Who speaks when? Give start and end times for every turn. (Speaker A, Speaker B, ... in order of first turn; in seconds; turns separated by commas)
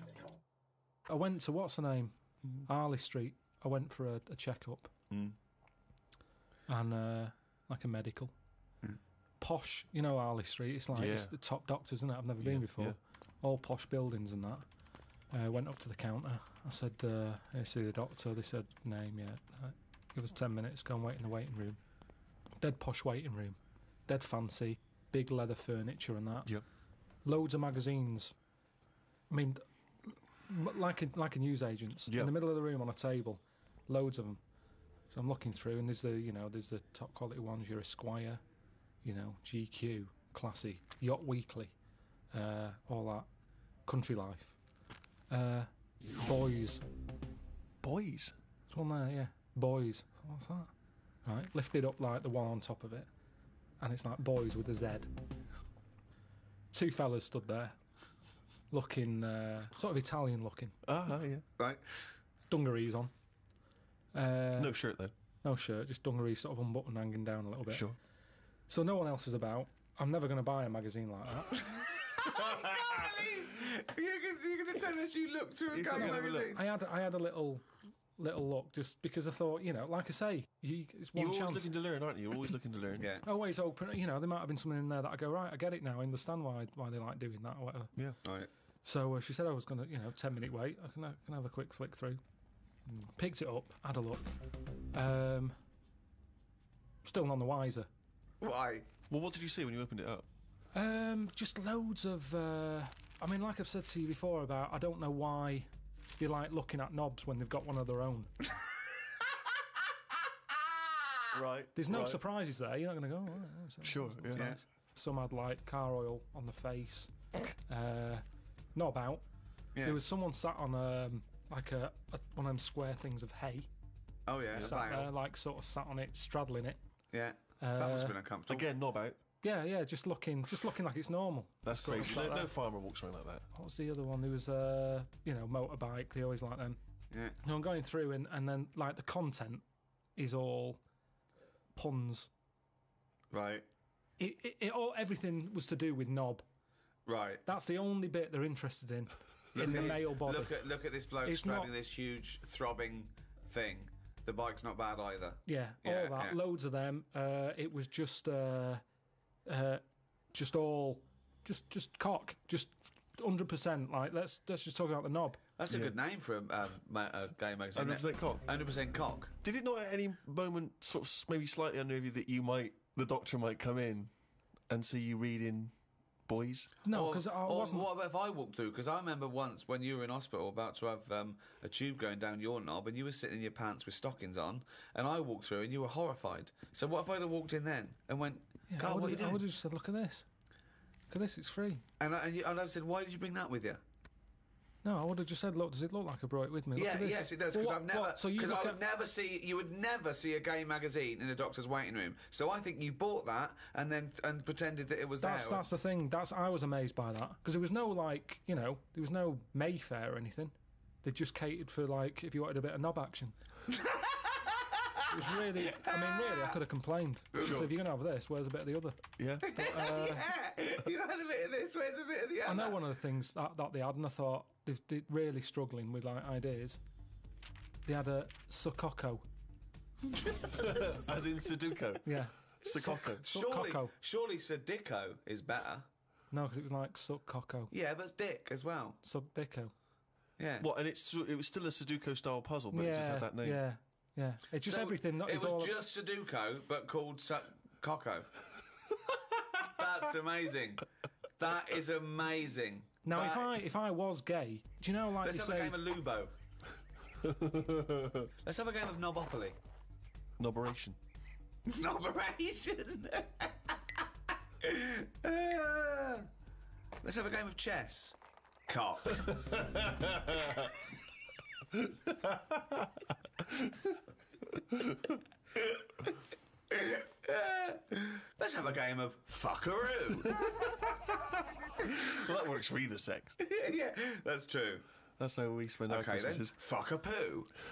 Speaker A: 1.1-4.9, Speaker A: 6.7-8.3, Speaker A: 9.4-14.6, Speaker B: 10.9-11.3, Speaker B: 12.4-13.0, Speaker A: 15.3-21.8, Speaker A: 22.6-23.6, Speaker A: 24.1-26.5, Speaker A: 27.2-28.3, Speaker A: 29.3-34.4, Speaker B: 32.1-32.3, Speaker A: 35.1-38.4, Speaker A: 39.0-41.7, Speaker A: 42.3-43.3, Speaker A: 43.9-44.6, Speaker A: 45.3-45.7, Speaker A: 46.2-46.8, Speaker B: 47.8-48.3, Speaker A: 48.7-50.7, Speaker A: 51.2-53.1, Speaker A: 53.8-55.1, Speaker A: 56.7-57.8, Speaker A: 58.7-60.8, Speaker B: 60.8-61.4, Speaker A: 62.5-63.1, Speaker A: 64.1-64.7, Speaker B: 64.6-65.1, Speaker A: 65.4-67.9, Speaker B: 67.7-68.0, Speaker A: 68.7-71.6, Speaker C: 71.7-76.6, Speaker B: 75.7-76.6, Speaker A: 75.9-81.7, Speaker B: 81.1-83.1, Speaker C: 83.0-83.2, Speaker A: 83.2-87.9, Speaker C: 88.2-88.5, Speaker A: 88.8-92.2, Speaker A: 92.8-94.3, Speaker A: 94.9-95.5, Speaker A: 97.0-97.9, Speaker C: 98.4-98.9, Speaker B: 99.1-100.3, Speaker A: 100.7-105.7, Speaker A: 106.2-108.3, Speaker B: 111.3-112.2, Speaker A: 111.7-118.2, Speaker B: 113.8-114.5, Speaker C: 114.3-114.6, Speaker A: 118.7-119.2, Speaker A: 119.8-123.7, Speaker C: 124.3-125.1, Speaker A: 124.6-126.8, Speaker C: 127.1-128.7, Speaker A: 127.6-128.1, Speaker B: 128.5-129.2, Speaker A: 129.4-132.5, Speaker B: 131.6-133.4, Speaker A: 133.5-136.8, Speaker C: 137.1-137.3, Speaker A: 137.4-139.6, Speaker A: 140.2-140.8, Speaker A: 141.7-142.3, Speaker C: 143.3-143.7, Speaker A: 144.2-146.4, Speaker C: 147.1-147.4, Speaker A: 147.4-150.6, Speaker C: 149.5-156.4, Speaker A: 151.2-151.7, Speaker A: 155.4-158.8, Speaker A: 159.4-165.4, Speaker C: 165.6-169.3, Speaker B: 165.7-166.0, Speaker B: 167.7-168.4, Speaker B: 169.4-174.1, Speaker B: 174.7-175.7, Speaker B: 176.3-176.7, Speaker A: 176.8-177.9, Speaker C: 176.9-189.4, Speaker A: 188.7-190.3, Speaker A: 191.1-191.8, Speaker C: 192.0-193.8, Speaker A: 194.8-198.8, Speaker C: 196.8-205.6, Speaker A: 205.2-213.3, Speaker C: 213.7-214.8, Speaker A: 215.1-220.3, Speaker C: 215.3-216.6, Speaker C: 217.4-217.7, Speaker B: 219.2-219.5, Speaker C: 219.4-222.8, Speaker A: 222.4-226.8, Speaker A: 227.8-229.2, Speaker B: 230.6-232.0, Speaker A: 232.0-233.9, Speaker B: 232.6-233.2, Speaker C: 233.2-235.8, Speaker A: 236.3-237.7, Speaker C: 237.7-239.0, Speaker A: 239.0-239.7, Speaker C: 240.4-240.7, Speaker B: 240.6-243.6, Speaker A: 242.7-245.8, Speaker C: 244.6-248.3, Speaker C: 249.5-250.8, Speaker C: 251.4-253.5, Speaker A: 253.0-255.8, Speaker C: 255.2-256.3, Speaker B: 257.2-258.3, Speaker C: 258.4-259.6, Speaker B: 260.4-261.0, Speaker C: 261.7-263.8, Speaker C: 264.6-266.3, Speaker C: 267.0-268.2, Speaker C: 268.7-270.5, Speaker B: 271.8-272.7, Speaker B: 273.4-273.9, Speaker B: 274.7-275.1, Speaker C: 275.6-276.1, Speaker C: 276.7-280.5, Speaker B: 281.8-283.4, Speaker C: 283.4-284.8, Speaker B: 285.2-286.5, Speaker C: 285.9-287.5